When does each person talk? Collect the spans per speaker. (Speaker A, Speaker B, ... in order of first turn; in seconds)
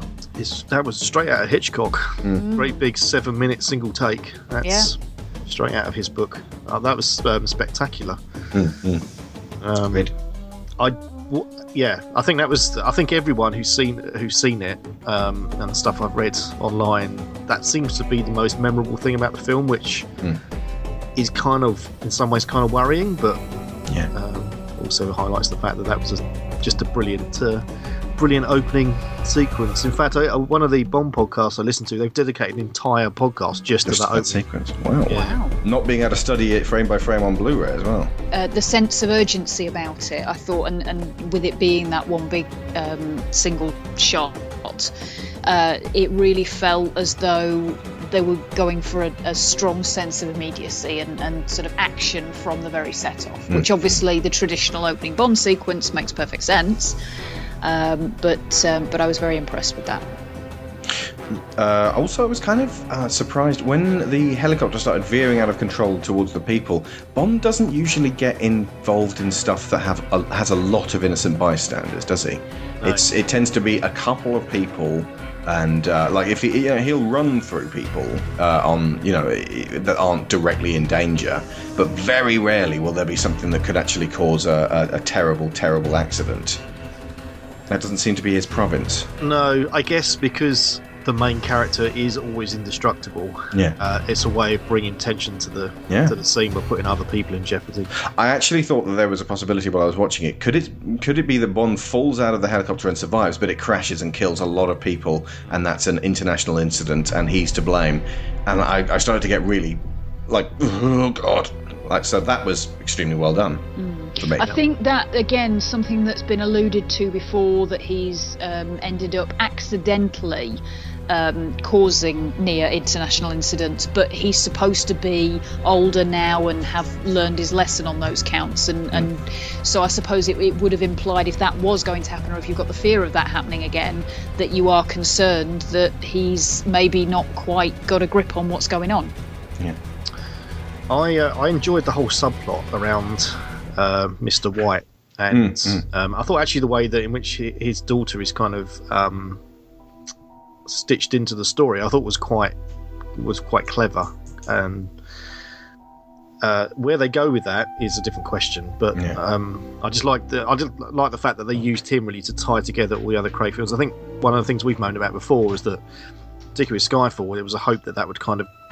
Speaker A: 0.4-8.2, 9.6-10.1, 10.8-20.1, 21.2-23.4, 24.1-27.6, 28.2-34.4, 35.1-35.4, 89.2-97.9, 140.9-149.4, 150.7-152.6, 153.2-155.0, 156.4-165.8, 166.6-168.5
Speaker B: 2.4-2.8, 4.6-4.9, 35.1-35.5, 38.3-44.9, 45.4-57.0, 57.6-60.0, 113.8-139.1
Speaker C: 8.5-9.1, 33.9-38.1, 53.5-54.0, 61.3-86.6, 87.7-89.1, 93.5-93.8, 95.9-96.2, 98.0-113.7, 114.2-114.5, 145.3-145.8